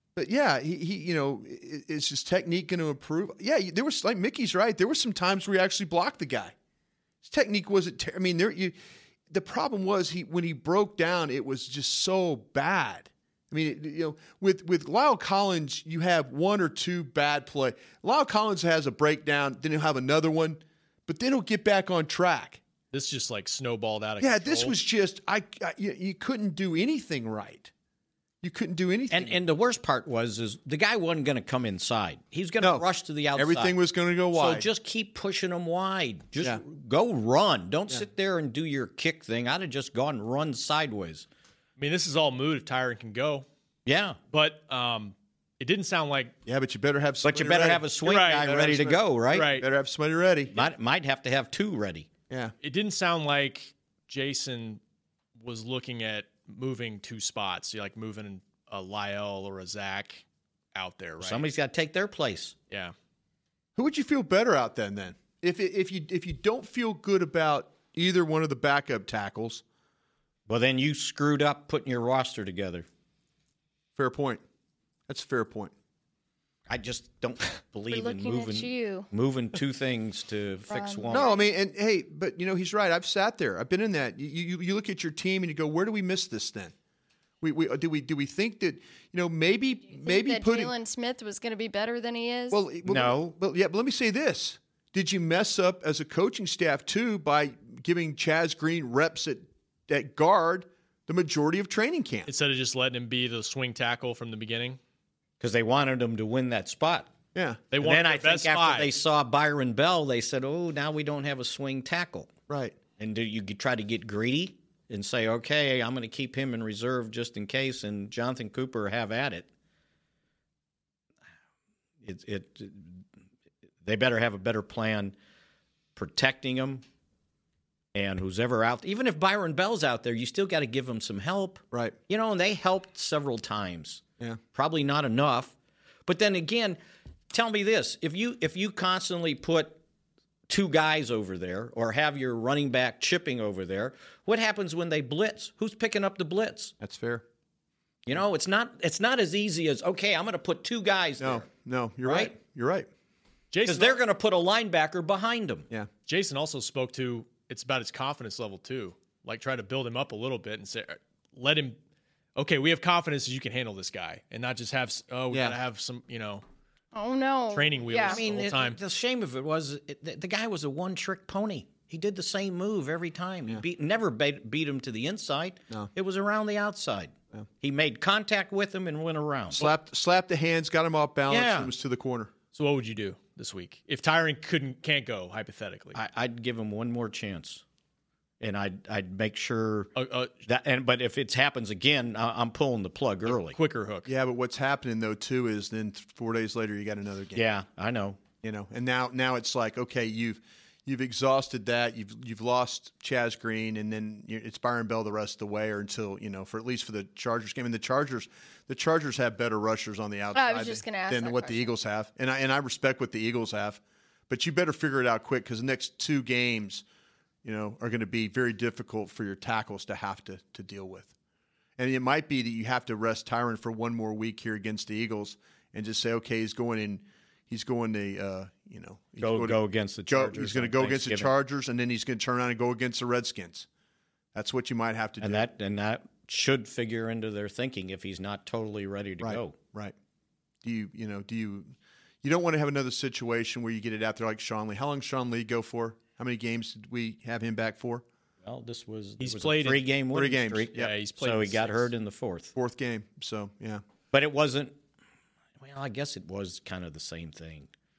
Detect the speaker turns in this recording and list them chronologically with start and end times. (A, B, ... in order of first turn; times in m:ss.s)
0:00.2-0:06.5 A
0:07.2-0:08.8 A
0:09.3-0:22.6 A
0:22.9-0:24.8 B
0:24.2-0:27.7 A
0:28.4-0:29.4 A
0:29.1-0:33.8 C
0:32.6-0:34.7 A
0:34.3-0:41.2 C
0:41.8-0:43.4 B
0:43.8-0:44.2 C
0:44.3-0:46.3 B
0:46.4-0:50.6 A
0:47.2-0:49.6 C
0:48.0-0:48.6 B
0:49.3-0:49.7 B
0:50.5-0:52.1 C
0:52.3-0:52.5 A
0:52.6-0:54.8 B
0:55.4-1:01.5 B
1:01.2-1:02.5 C
1:03.8-1:09.6 A
1:10.5-1:12.8 C
1:14.0-1:14.4 A
1:15.1-1:15.7 A
1:16.7-1:21.4 C
1:17.9-1:19.1 D
1:20.7-1:21.4 D
1:21.1-1:26.7 A
1:27.4-1:30.7 A
1:30.0-1:32.6 D
1:32.5-1:42.3 A
1:32.8-1:33.2 C
1:42.3-1:44.8 B
1:45.4-1:47.1 C
1:47.3-1:47.7 A
1:47.7-1:48.9 B
1:47.8-1:52.3 C
1:52.5-1:52.8 A
1:53.0-1:59.5 C
2:02.0-2:03.0 C
2:03.8-2:05.1 C
2:06.0-2:06.8 C
2:07.9-2:14.0 C
2:11.7-2:12.0 A
2:14.5-2:15.5 C
2:16.0-2:16.8 C
2:17.3-2:19.8 C
2:20.5-2:26.7 C
2:26.8-2:27.2 A
2:28.0-2:31.4 C
2:31.2-2:32.9 A
2:32.0-2:32.3 C
2:33.5-2:34.0 B
2:33.6-2:35.7 C
2:36.1-2:41.8 B
2:42.4-2:46.4 B
2:45.3-2:45.6 A
2:46.9-2:48.2 D
2:47.5-2:48.8 B
2:47.9-2:59.7 C
2:59.5-3:02.3 A
3:01.3-3:01.7 C
3:02.5-3:06.0 B
3:05.9-3:07.6 C
3:08.4-3:09.9 C
3:10.0-3:10.3 B
3:10.4-3:13.6 C
3:13.2-3:14.1 B
3:14.0-3:17.4 A
3:17.3-3:18.2 C
3:18.4-3:36.8 A
3:30.3-3:31.7 D
3:37.4-3:41.1 A
3:41.8-3:53.7 A
3:49.2-3:51.3 C
3:54.3-3:55.4 A
3:55.2-3:59.6 C
3:59.2-3:59.9 A
4:00.6-4:08.0 A
4:08.4-4:12.5 C
4:09.2-4:09.9 B
4:10.1-4:10.9 A
4:10.7-4:11.9 B
4:12.6-4:13.8 A
4:14.1-4:14.8 C
4:15.6-4:17.7 C